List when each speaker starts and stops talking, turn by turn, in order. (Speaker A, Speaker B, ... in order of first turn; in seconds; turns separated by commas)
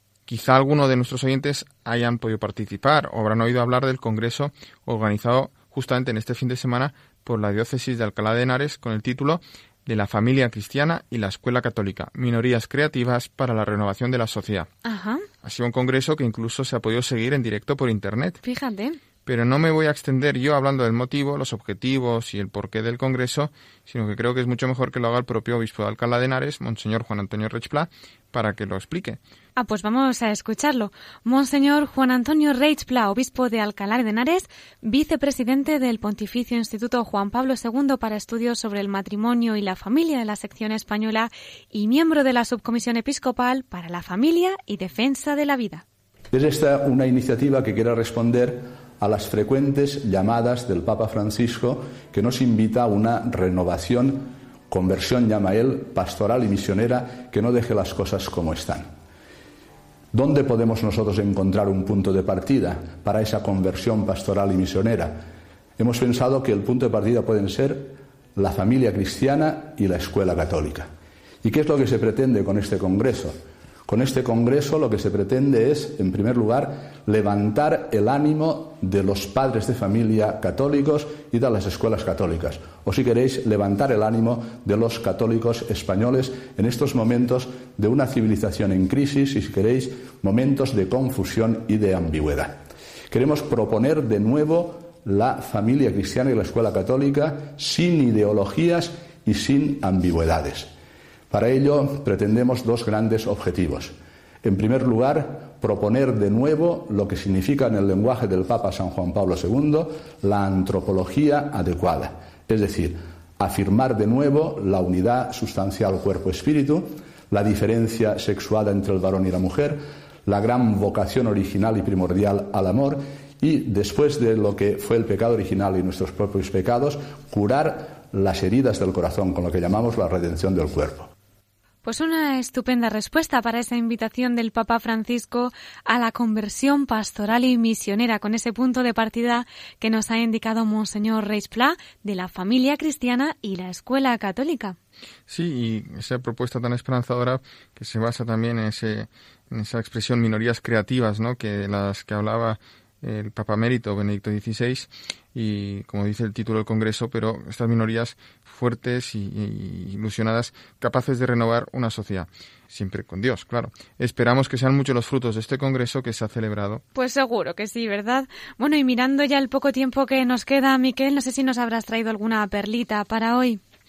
Speaker A: 0.3-14.7, Speaker B: 14.8-15.3, Speaker A: 15.4-18.4, Speaker B: 18.4-19.0, Speaker A: 19.2-29.2, Speaker B: 29.6-45.8, Speaker C: 46.3-58.9, Speaker C: 60.1-70.9, Speaker C: 71.4-100.7, Speaker C: 101.3-131.1, Speaker B: 131.8-144.8, Speaker A: 145.3-166.8, Speaker B: 166.9-173.6